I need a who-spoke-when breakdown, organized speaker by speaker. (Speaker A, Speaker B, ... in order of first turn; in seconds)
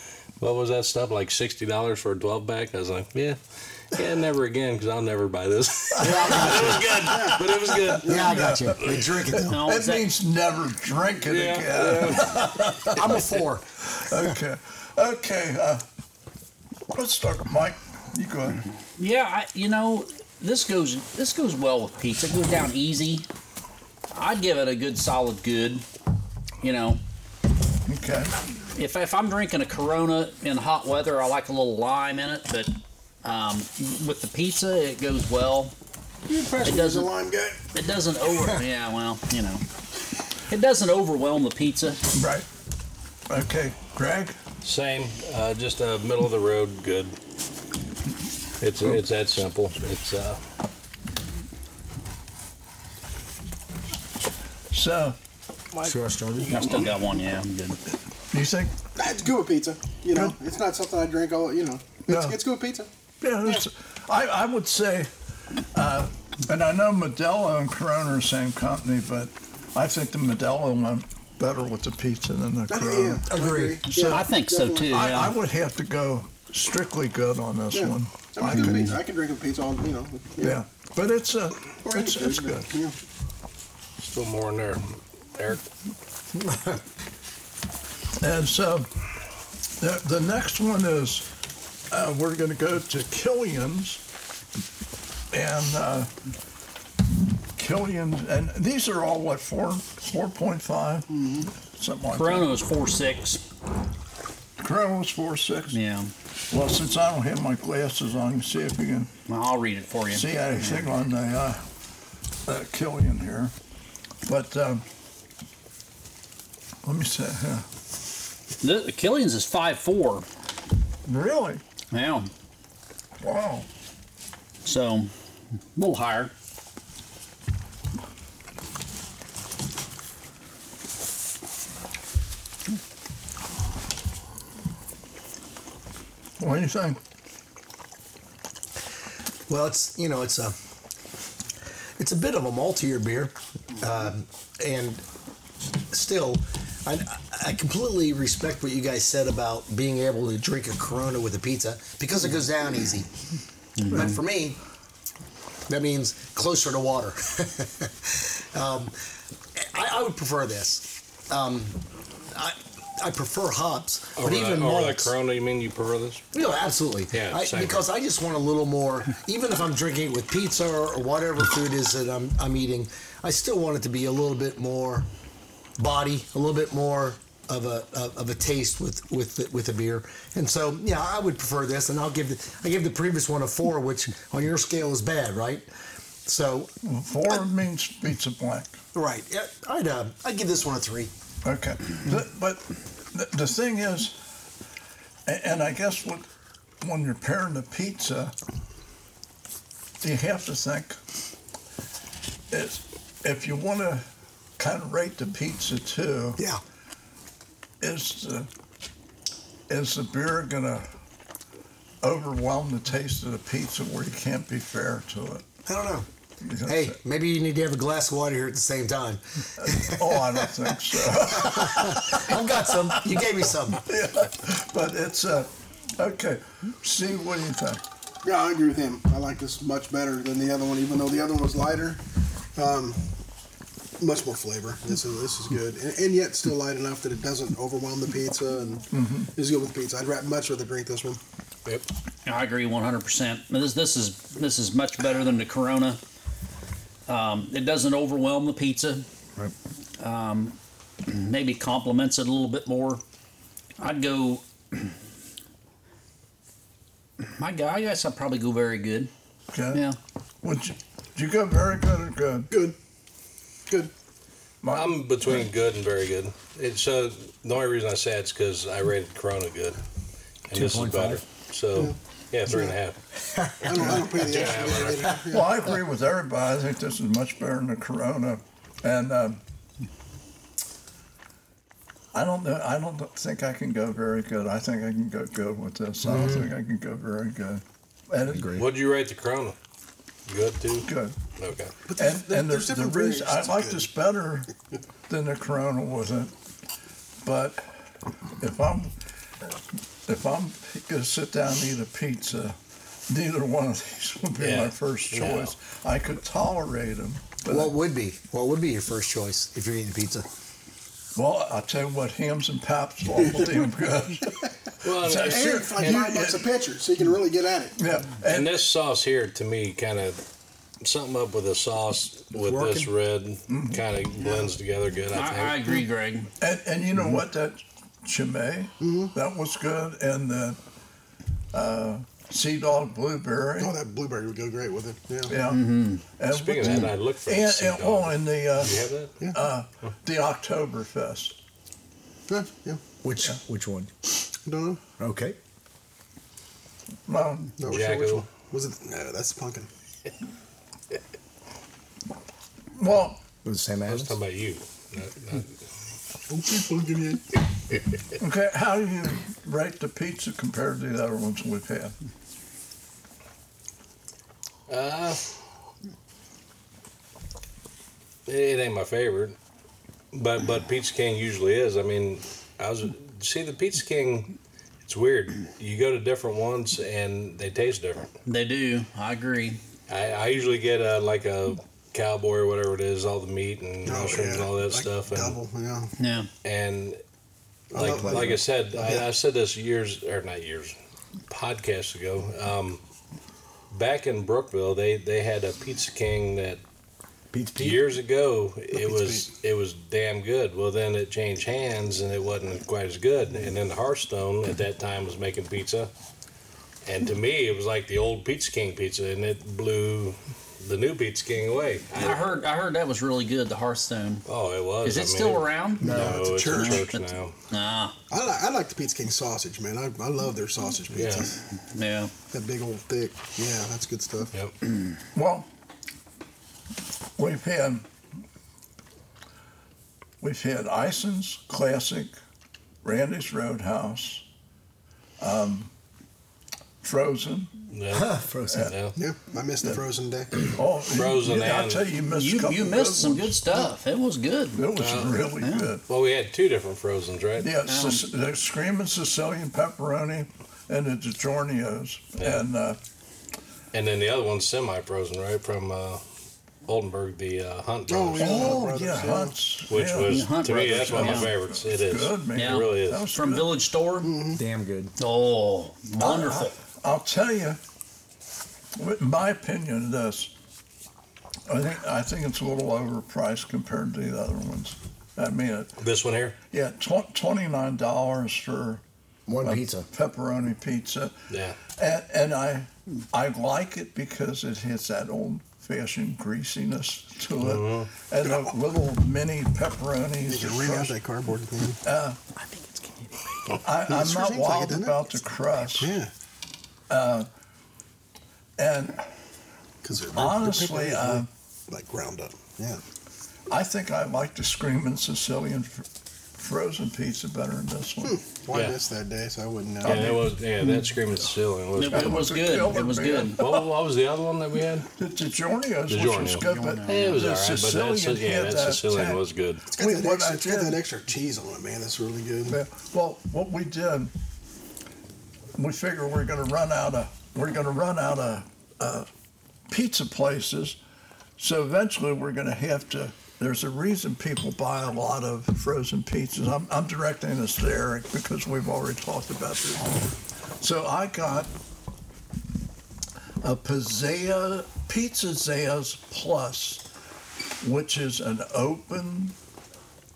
Speaker A: 0.4-8.7, 11.2-12.5, 44.6-47.2, 48.6-50.4, 84.0-85.6, 164.2-166.2, 167.1-167.8, 264.7-269.8, 270.5-272.9, 274.0-275.2, 288.5-289.6, 290.3-291.7, 304.4-305.5, 314.8-316.0, 318.3-320.2, 320.8-325.8, 336.3-339.1, 347.6-348.2, 353.9-355.6, 364.7-365.2, 368.2-369.4, 370.1-378.1, 379.9-385.4, 386.4-387.0, 387.7-390.7, 391.3-392.8, 393.7-396.6, 397.6-405.9, 406.8-412.3, 414.2-417.3, 420.9-421.3, 437.7-438.9, 440.9-441.9, 444.8-445.2, 445.9-447.5, 452.2-452.4, 453.7-456.0, 456.6-458.6, 459.7-463.0, 475.8-476.4, 481.3-481.6, 487.4-487.9, 509.8-512.3, 513.1-514.9, 515.9-519.6
Speaker B: 6.0-13.3, 13.9-15.8, 16.9-18.6, 27.9-28.3, 42.1-42.5, 43.3-44.4, 54.7-55.1, 58.3-58.8, 62.1-62.4, 63.2-65.1, 65.7-73.3, 73.8-74.3, 74.8-78.8, 80.4-82.7, 88.2-88.9, 89.8-91.3, 91.9-94.0, 95.3-96.1, 97.5-102.5, 104.6-105.8, 106.5-109.1, 110.1-111.6, 112.5-113.5, 114.2-114.8, 116.8-117.7, 121.0-121.6, 123.2-123.7, 136.4-137.0, 186.8-188.8, 191.4-194.2, 195.2-196.3, 196.8-198.3, 200.0-201.0, 202.5-204.0, 204.6-206.4, 207.8-208.5, 209.7-210.9, 212.0-215.5, 216.4-217.0, 219.6-227.8, 238.9-239.3, 259.5-259.8, 260.4-262.5, 264.6-265.4, 275.3-279.4, 282.1-288.6, 290.8-291.1, 292.0-294.5, 295.1-296.3, 297.2-297.6, 298.4-298.9, 300.1-307.7, 311.1-316.5, 317.8-318.6, 323.5-323.8, 326.4-330.6, 331.5-333.7, 335.2-341.3, 347.1-347.6, 352.7-353.2, 358.2-361.9, 425.1-425.5, 427.2-427.9, 430.2-432.1, 432.8-434.2, 435.2-435.7, 436.8-437.5, 440.5-443.4, 444.5-445.8, 447.4-452.8, 458.2-463.6, 466.0-467.6, 468.8-470.3, 471.5-475.8, 476.5-478.8, 479.4-491.0, 491.8-492.2, 493.5-495.9, 496.9-497.3, 498.6-499.0, 500.1-501.3, 503.5-508.2, 509.8-510.3, 511.9-513.7, 515.0-519.2, 519.8-520.8, 522.5-524.1, 525.5-529.1, 529.7-530.8, 531.4-540.0, 540.6-541.5, 543.4-546.8, 547.6-549.3
Speaker C: 6.0-7.1, 8.0-9.6, 12.9-14.3, 55.8-56.6, 73.3-73.8, 86.3-86.8, 139.5-140.6, 142.0-145.0, 145.9-153.1, 153.8-154.6, 155.7-159.0, 159.5-165.1, 166.3-175.1, 175.8-185.7, 186.2-186.7, 188.9-191.1, 215.7-216.1, 216.6-223.8, 270.5-271.2, 273.2-273.9, 286.0-286.5, 288.2-288.7, 307.4-310.3, 322.3-322.9, 343.0-343.9, 345.0-345.4, 353.4-354.2, 387.8-388.4, 397.3-397.8, 437.9-438.7, 464.3-464.9, 479.3-479.9
Speaker D: 7.0-7.4, 8.0-8.3, 36.3-37.6, 59.0-62.9, 72.7-75.3, 77.7-80.6, 81.8-82.9, 101.1-101.5, 228.2-232.0, 232.5-233.1, 234.0-241.2, 262.5-262.7, 272.5-272.7, 273.6-275.6, 291.9-293.9, 315.2-317.8, 328.8-329.1, 333.6-335.3, 342.3-342.8, 344.4-344.8, 347.6-349.7, 356.3-357.3, 383.8-385.9, 387.7-389.1, 398.7-399.3, 415.8-416.9, 418.1-421.4, 422.3-424.3, 438.9-440.6, 457.9-459.3, 464.0-464.4, 490.2-491.8, 493.9-495.1, 495.8-496.1, 499.8-502.8, 508.0-510.2, 519.7-522.6
Speaker E: 9.5-10.1, 19.0-23.3, 24.1-25.9, 26.6-27.0, 28.7-35.7, 36.6-37.1, 37.7-39.6, 40.5-42.0, 56.5-57.8, 74.0-75.4, 78.5-79.0, 102.1-103.4, 105.7-106.1, 109.3-110.8, 118.6-120.2, 121.9-122.3, 124.6-125.1, 125.7-126.3, 153.8-154.2, 242.2-246.0, 247.1-249.1, 250.0-253.0, 253.8-254.9, 257.2-259.1, 259.7-260.0, 325.1-326.3, 335.4-336.0, 378.2-379.6, 386.0-386.3, 411.9-414.2, 414.8-417.9, 421.7-422.1, 442.1-444.6, 445.4-445.7, 447.6-448.1, 460.1-461.3, 462.3-464.2, 465.0-466.5, 492.4-493.5, 511.7-513.4, 516.4-517.2